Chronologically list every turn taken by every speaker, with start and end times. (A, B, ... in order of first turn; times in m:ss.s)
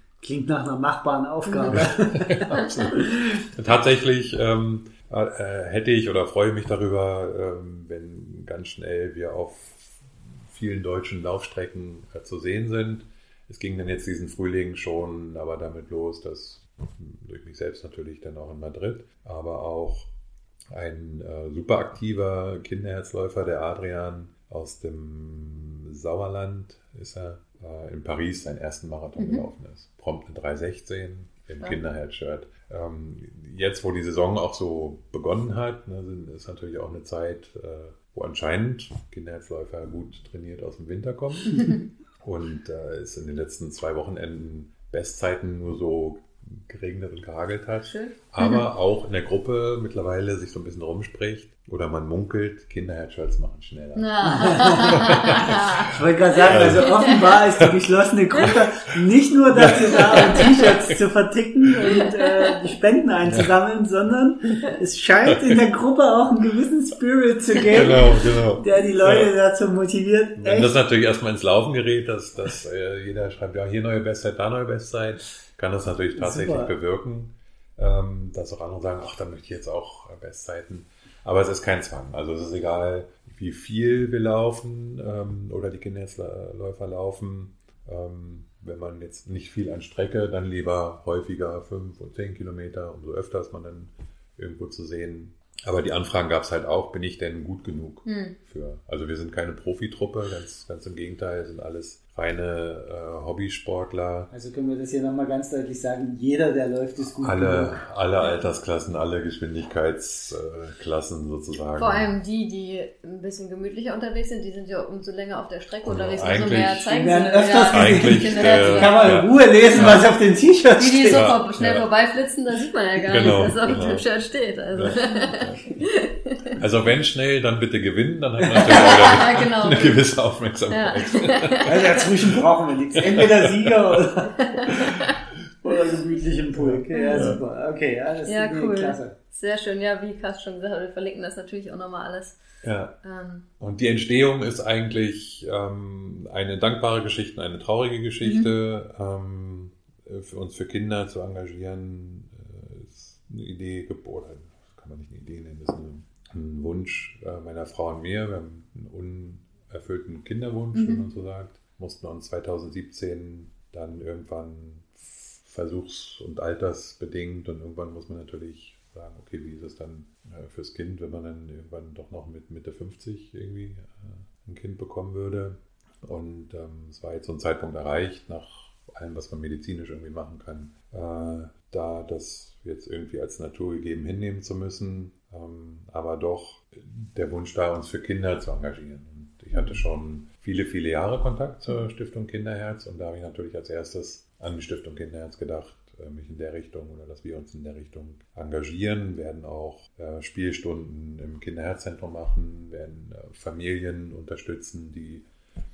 0:00.2-0:03.4 A
0:01.5-0:01.8 B
0:01.7-0:20.1 C
0:20.7-0:57.7 C
0:29.2-0:29.4 B
0:41.5-0:41.8 B
0:47.8-0:48.6 B
0:54.0-0:55.9 B
0:54.2-0:55.2 A
0:55.8-1:10.8 A
0:59.5-1:01.0 C
1:02.0-1:02.5 B
1:03.2-1:03.5 C
1:05.3-1:05.6 C
1:07.6-1:09.3 C
1:10.4-1:44.3 C
1:16.1-1:16.7 A
1:38.0-1:38.4 B
1:44.3-1:47.8 A
1:47.1-1:52.1 C
1:51.8-1:59.2 B
1:55.8-1:56.9 C
1:56.9-2:01.3 A
1:57.7-2:00.1 C
1:59.7-2:00.1 B
2:00.8-2:06.5 B
2:01.1-2:01.9 C
2:03.0-2:04.1 C
2:04.7-2:05.8 C
2:06.6-2:12.4 C
2:08.4-2:08.9 A
2:08.7-2:10.0 B
2:10.7-2:11.8 B
2:11.6-2:14.4 A
2:12.9-2:14.0 C
2:14.4-2:15.1 B
2:14.7-2:15.0 C
2:15.6-2:19.1 A
2:16.5-2:17.4 C
2:16.9-2:17.3 B
2:18.3-2:22.4 B
2:22.6-2:23.0 C
2:23.0-2:23.4 B
2:23.6-3:25.2 C
2:28.2-2:28.5 B
2:40.7-2:41.0 B
3:09.5-3:09.8 A